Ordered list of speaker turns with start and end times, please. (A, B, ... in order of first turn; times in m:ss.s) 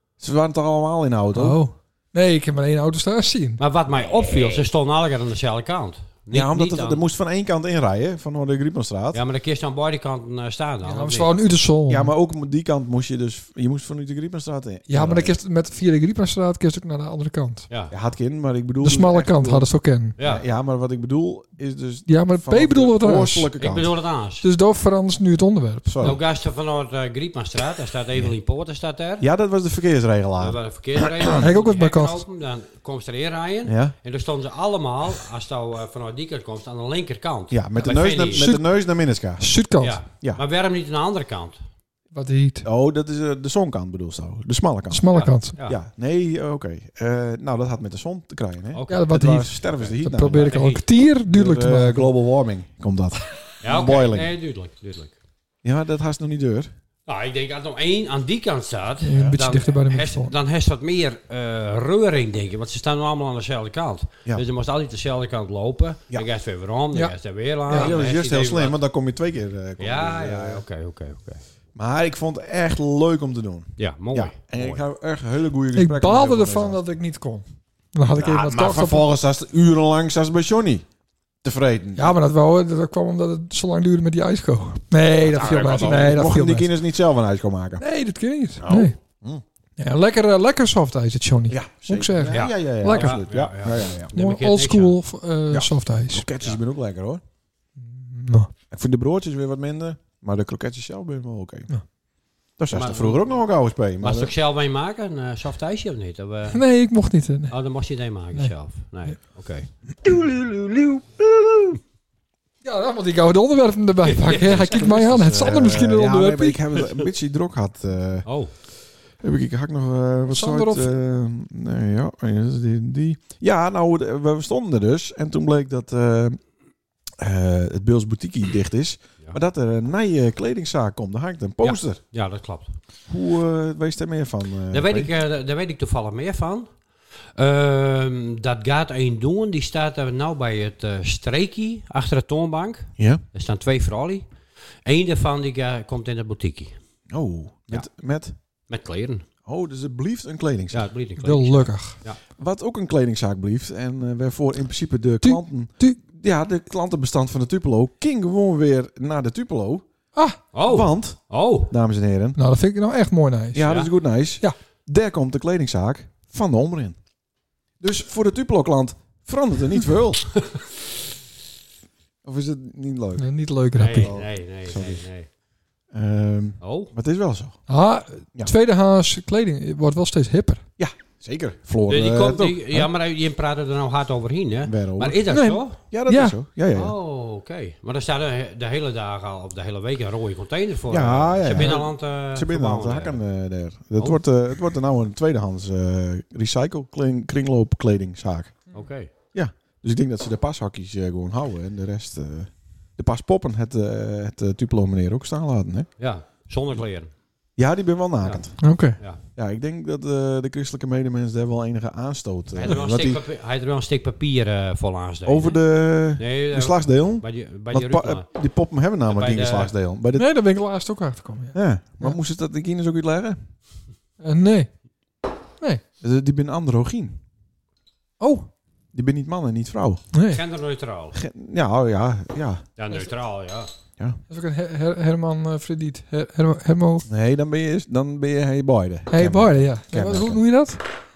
0:00.2-0:01.6 A
0:01.3-0:03.6 B
0:03.6-0:07.0 C
0:06.3-0:09.2 A
0:09.1-0:11.3 C
0:10.8-0:12.1 B
0:11.9-0:15.4 A
0:14.9-0:17.6 B
0:17.9-0:24.0 A
0:18.8-0:20.1 B
0:20.2-0:20.4 C
0:22.1-0:23.5 B
0:23.6-0:24.4 C
0:24.4-0:26.2 B
0:25.8-0:26.2 A
0:26.0-0:29.3 C
0:29.2-0:31.4 A
0:30.4-0:38.6 C
0:31.4-0:32.2 B
0:33.6-0:33.9 A
0:37.5-0:39.5 A
0:39.4-0:40.0 B
0:39.8-0:41.6 C
0:42.1-0:42.6 B
0:42.6-0:50.6 A
0:44.9-0:45.5 B
0:45.1-0:45.8 C
0:48.7-0:49.2 C
0:48.9-0:52.1 B
0:49.8-0:50.8 C
0:51.2-0:54.3 A
0:53.6-0:55.2 C
0:55.6-0:56.7 A
0:57.1-1:08.8 C
0:59.0-1:00.3 B
1:07.7-1:10.6 A
1:09.8-1:11.4 C
1:11.7-1:16.8 A
1:13.8-1:14.8 C
1:15.8-1:19.0 B
1:18.1-1:20.8 A
1:21.4-1:22.2 A
1:22.0-1:26.7 B
1:25.2-1:27.8 A
1:27.8-1:29.0 B
1:28.6-1:29.4 A
1:29.8-1:33.2 B
1:31.5-1:34.1 A
1:32.3-1:35.0 C
1:34.1-1:36.2 B
1:35.5-1:37.2 A
1:37.8-1:38.5 B
1:38.7-1:41.7 A
1:42.6-1:44.3 A
1:42.7-1:43.4 C
1:44.0-1:46.6 C
1:46.5-1:47.5 B
1:47.5-1:51.0 C
1:52.6-1:56.6 B
1:54.0-1:54.9 C
1:54.5-1:58.3 A
1:58.2-1:58.5 C
1:59.2-2:06.4 A
2:00.3-2:00.9 B
2:07.2-2:12.0 A
2:11.6-2:12.7 C
2:13.1-2:15.1 A
2:14.7-2:16.7 C
2:17.4-2:24.2 C
2:23.0-2:23.2 A
2:24.8-2:26.7 C
2:27.1-2:28.3 A
2:28.7-2:29.2 C
2:29.4-2:30.9 A
2:30.7-2:32.2 C
2:31.2-2:32.0 B
2:32.4-2:39.8 A
2:35.2-2:36.0 B
2:40.5-2:41.7 C
2:40.7-2:42.4 A
2:42.4-2:43.7 B
2:43.5-2:47.0 A
2:47.8-2:50.3 A
2:52.2-2:53.3 A
2:53.2-2:54.1 B
2:53.8-2:55.3 C
2:53.9-2:55.0 A
2:55.9-2:57.6 A
2:56.6-2:56.9 C
2:57.7-3:00.6 B
3:00.8-3:02.9 A
3:01.9-3:05.8 C
3:04.6-3:05.2 A
3:05.3-3:06.4 B
3:05.9-3:06.9 A
3:06.7-3:13.2 C
3:10.9-3:18.6 A
3:18.7-3:19.1 C
3:19.3-3:25.9 A
3:26.0-3:27.1 C
3:27.6-3:28.7 A
3:28.6-3:29.0 B
3:29.4-3:33.2 A
3:32.5-3:38.3 C
3:35.2-3:40.3 A
3:39.1-3:39.7 C
3:40.2-3:42.2 B
3:41.5-3:43.4 A
3:44.2-3:44.7 B
3:46.0-3:47.2 A
3:48.2-3:48.5 B
3:48.9-3:50.0 A
3:50.1-3:50.4 B
3:50.3-3:51.2 C
3:51.1-3:52.6 A
3:52.8-3:53.7 C
3:54.3-3:57.0 B
3:57.0-4:00.4 A
3:59.1-4:00.8 B